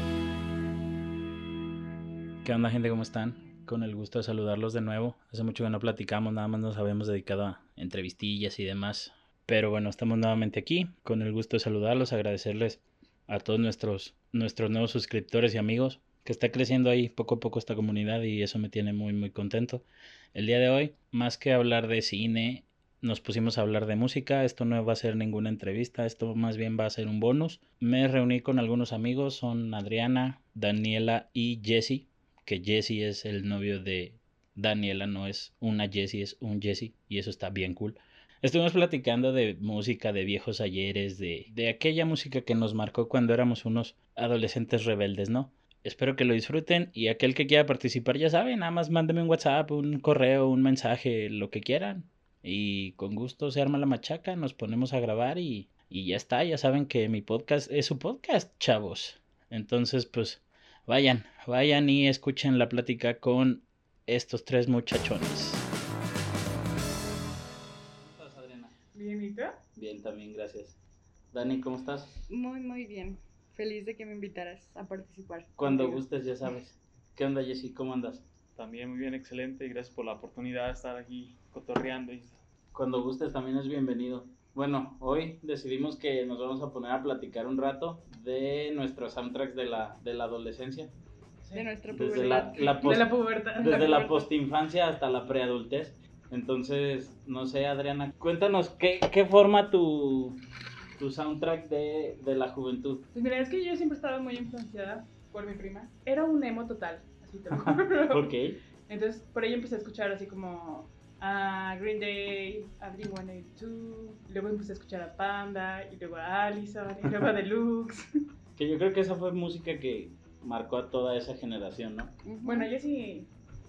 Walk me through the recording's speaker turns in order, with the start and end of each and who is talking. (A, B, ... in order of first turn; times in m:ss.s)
0:02.4-1:05.6 A
1:08.0-1:08.7 A
1:08.9-1:09.6 B
1:09.8-1:10.8 A
1:11.3-1:12.1 A
1:12.3-1:16.0 C
1:15.6-1:18.2 A
1:18.6-1:22.4 D
1:22.7-1:30.9 A
1:31.5-1:32.8 C
1:31.9-1:40.4 A
1:32.2-1:34.3 B
1:41.0-1:43.0 A
1:43.1-1:48.3 B
1:47.5-1:48.6 A
1:48.9-1:58.1 B
1:58.6-2:02.1 A
2:02.2-2:02.7 C
2:02.4-2:03.3 B